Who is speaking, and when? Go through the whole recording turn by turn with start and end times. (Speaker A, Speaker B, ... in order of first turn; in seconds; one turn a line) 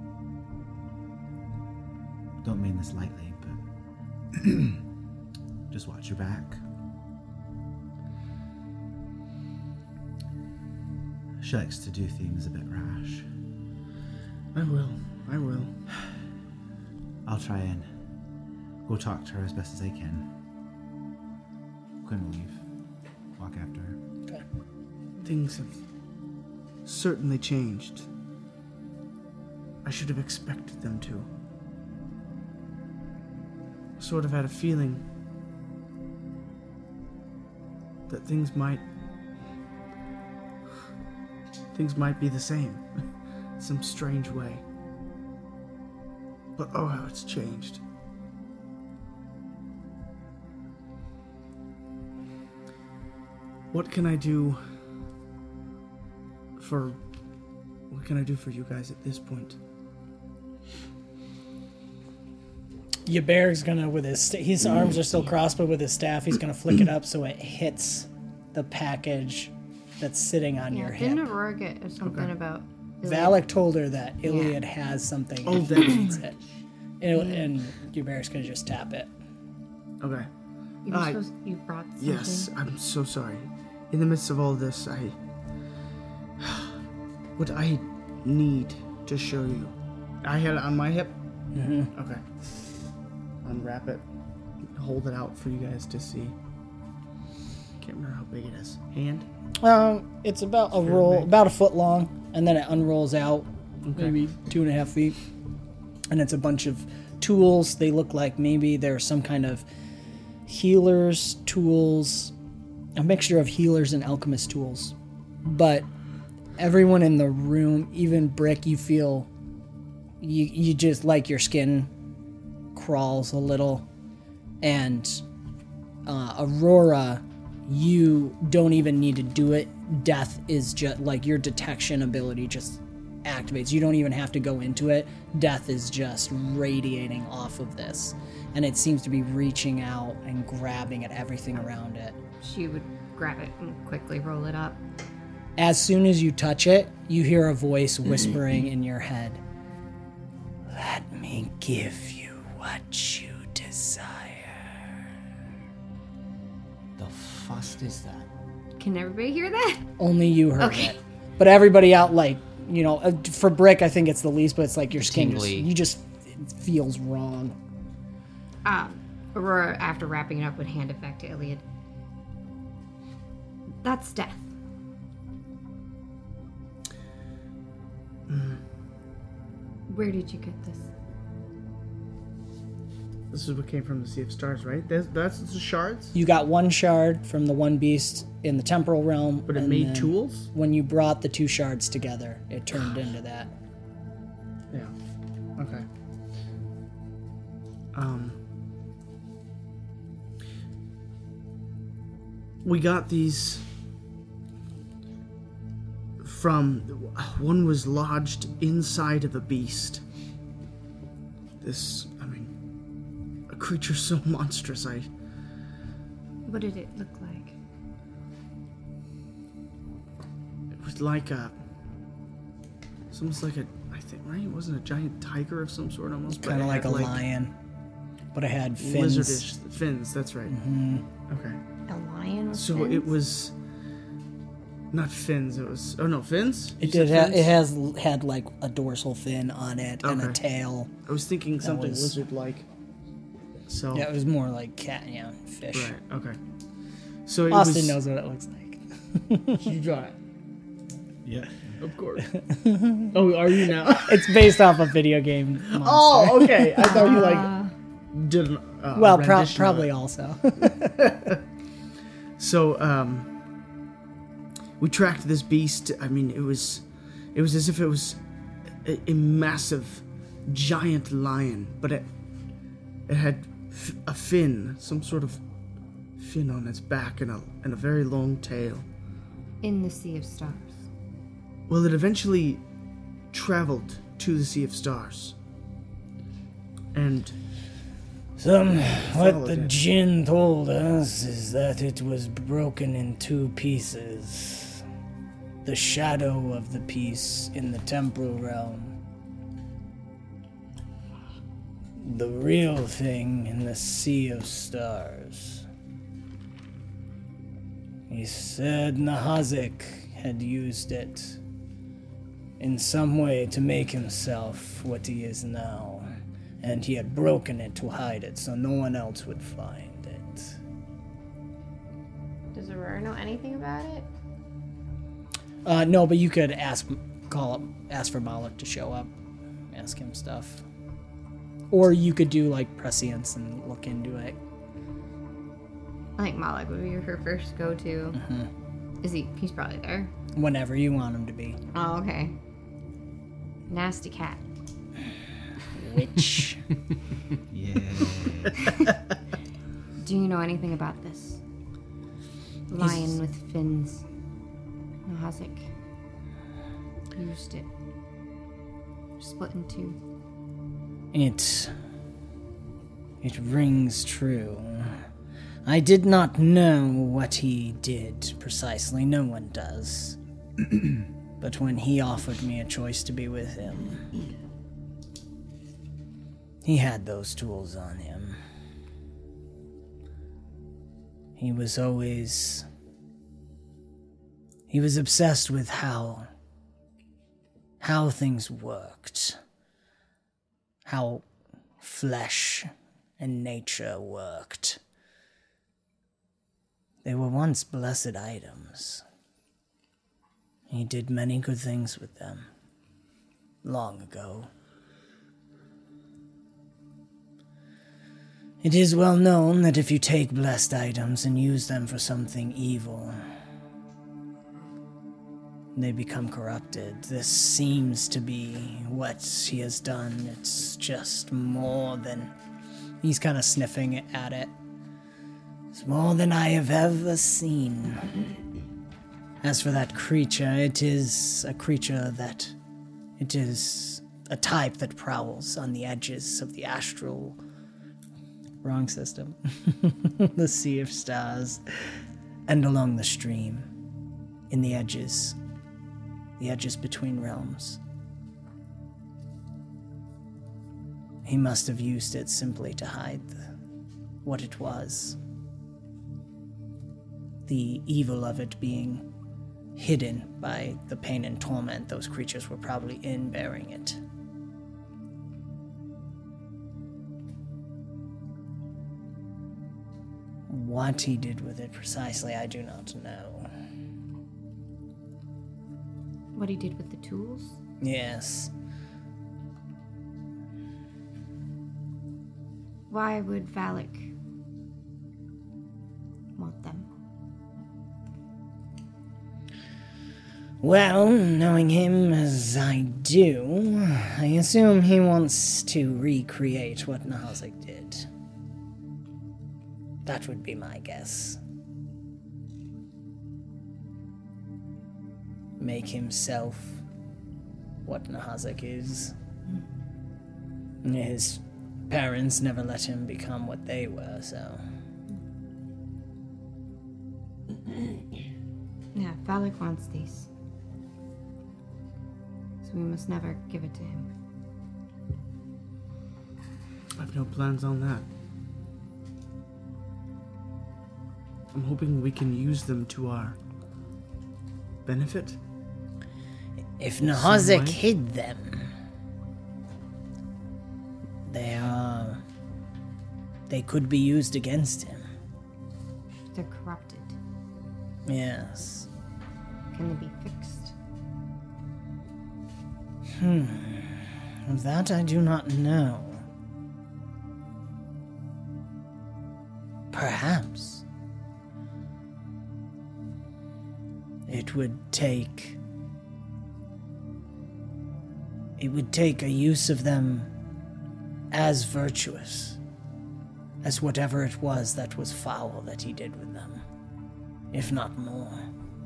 Speaker A: 2.4-3.6
Speaker A: 4.3-4.8
Speaker A: 5.7-6.6
Speaker A: 11.4-13.3
Speaker B: 14.6-15.7
Speaker A: 17.3-17.9
Speaker A: 18.9-20.3
Speaker A: 22.0-22.6
Speaker A: 23.4-24.0
Speaker B: 25.2-25.8
Speaker B: 26.9-28.1
Speaker B: 29.8-31.3
Speaker B: 34.0-35.0
Speaker B: 38.1-38.8
Speaker B: 41.7-44.6
Speaker B: 46.6-47.8
Speaker B: 53.7-54.6
Speaker B: 56.6-57.0
Speaker B: 57.9-59.6
Speaker C: 63.1-71.3
Speaker D: 70.7-73.5
Speaker B: 72.0-72.3
Speaker C: 73.0-76.4
Speaker D: 74.2-74.6
Speaker B: 75.5-76.2
Speaker C: 77.0-79.1
Speaker D: 77.1-77.5
Speaker B: 80.0-80.3
Speaker D: 80.8-82.5
Speaker B: 80.9-81.2
Speaker B: 82.0-85.2
Speaker B: 86.4-86.7
Speaker B: 87.4-91.1
Speaker C: 91.5-91.9
Speaker B: 92.0-92.3
Speaker B: 93.4-94.0
Speaker B: 94.7-96.3
Speaker B: 97.8-99.3
Speaker C: 99.6-105.2
Speaker B: 100.8-101.3
Speaker B: 103.9-104.4
Speaker C: 106.1-109.7
Speaker C: 110.5-112.3
Speaker C: 113.0-115.9
Speaker C: 116.6-119.3
Speaker C: 120.2-121.9
Speaker C: 122.7-123.9
Speaker C: 124.6-125.2
Speaker C: 126.1-142.2
Speaker D: 142.4-144.8
Speaker C: 145.6-149.4
Speaker C: 150.7-155.0
Speaker E: 157.0-158.3
Speaker D: 158.8-159.9
Speaker C: 160.0-167.6
Speaker D: 160.6-161.0
Speaker E: 164.9-165.7
Speaker D: 168.7-171.6
Speaker D: 173.8-174.5
Speaker B: 178.3-178.6
Speaker D: 179.9-180.9
Speaker B: 183.3-186.2
Speaker C: 186.1-193.5
Speaker B: 189.5-190.5
Speaker B: 195.6-195.8
Speaker B: 197.9-198.4
Speaker B: 202.6-203.7
Speaker B: 206.2-210.0
Speaker B: 211.6-212.5
Speaker B: 213.5-215.1
Speaker D: 216.4-217.6
Speaker B: 220.8-221.6
Speaker B: 223.1-227.2
Speaker C: 226.3-227.5
Speaker C: 228.3-229.4
Speaker B: 228.8-230.5
Speaker C: 230.5-231.1
Speaker B: 231.3-231.6
Speaker D: 231.9-233.1
Speaker B: 232.5-233.6
Speaker B: 234.9-237.5
Speaker C: 236.8-240.9
Speaker B: 240.0-240.4
Speaker B: 241.1-242.7
Speaker C: 241.6-242.2
Speaker B: 243.7-244.1
Speaker C: 243.9-246.0
Speaker B: 245.7-246.4
Speaker B: 247.3-248.0
Speaker C: 247.5-249.7
Speaker B: 249.6-250.2
Speaker A: 251.2-251.8
Speaker B: 251.8-252.3
Speaker C: 252.4-253.2
Speaker B: 253.1-254.2
Speaker C: 254.0-257.1
Speaker B: 255.7-257.5
Speaker D: 256.9-257.7
Speaker B: 258.1-259.9
Speaker C: 258.9-261.1
Speaker B: 262.4-263.3
Speaker B: 264.8-268.2
Speaker B: 268.8-272.1
Speaker B: 273.1-275.4
Speaker B: 276.2-278.9
Speaker D: 279.6-280.9
Speaker B: 281.7-282.6
Speaker B: 283.3-285.4
Speaker B: 286.9-287.4
Speaker C: 288.4-294.9
Speaker B: 289.1-289.7
Speaker C: 295.6-299.0
Speaker C: 302.0-305.7
Speaker C: 308.1-311.4
Speaker C: 312.6-316.1
Speaker C: 316.6-320.6
Speaker D: 322.5-324.1
Speaker C: 325.6-329.1
Speaker C: 329.7-330.6
Speaker C: 331.7-334.4
Speaker D: 336.2-338.2
Speaker C: 338.1-338.5
Speaker D: 339.0-340.1
Speaker C: 340.4-341.6
Speaker D: 341.7-342.4
Speaker D: 343.7-344.4
Speaker C: 345.8-346.6
Speaker A: 347.5-348.7
Speaker D: 350.0-351.4
Speaker D: 352.7-354.1
Speaker C: 352.8-353.2
Speaker D: 355.1-355.7
Speaker D: 357.1-357.7
Speaker D: 359.2-360.0
Speaker C: 361.1-361.7
Speaker C: 363.2-365.0
Speaker C: 365.6-370.2
Speaker C: 371.4-374.1
Speaker C: 376.6-378.4
Speaker C: 381.4-382.7
Speaker C: 384.7-386.3
Speaker C: 387.8-389.4
Speaker C: 390.9-391.3
Speaker C: 391.8-394.8
Speaker C: 397.0-399.1
Speaker C: 400.7-402.5
Speaker C: 403.6-404.5
Speaker C: 408.6-413.2
Speaker C: 415.8-422.3
Speaker C: 423.0-424.5
Speaker C: 425.7-428.2
Speaker C: 429.4-432.6
Speaker C: 433.2-437.4
Speaker C: 438.6-443.7
Speaker C: 444.5-445.4
Speaker C: 446.4-447.8
Speaker C: 451.2-453.4
Speaker C: 454.2-455.2
Speaker C: 457.5-459.1
Speaker C: 459.8-464.0
Speaker C: 470.5-473.5
Speaker D: 476.3-477.6
Speaker C: 477.8-478.5
Speaker D: 482.9-484.1
Speaker D: 486.4-486.9
Speaker C: 490.6-498.1
Speaker C: 500.1-501.4
Speaker C: 505.6-506.8
Speaker C: 507.9-509.1
Speaker C: 510.8-514.6
Speaker D: 518.9-520.3
Speaker D: 522.6-524.1
Speaker B: 527.0-528.1
Speaker B: 531.5-533.4
Speaker B: 534.9-535.4
Speaker C: 536.8-538.7
Speaker B: 537.0-537.8
Speaker C: 541.3-542.2
Speaker C: 543.5-545.1
Speaker D: 546.3-547.2
Speaker C: 548.1-548.9
Speaker D: 549.7-550.8
Speaker C: 553.2-556.3
Speaker C: 559.9-560.8
Speaker C: 564.3-565.6
Speaker C: 568.6-570.3
Speaker C: 571.3-572.6
Speaker C: 573.6-576.6
Speaker C: 577.5-578.5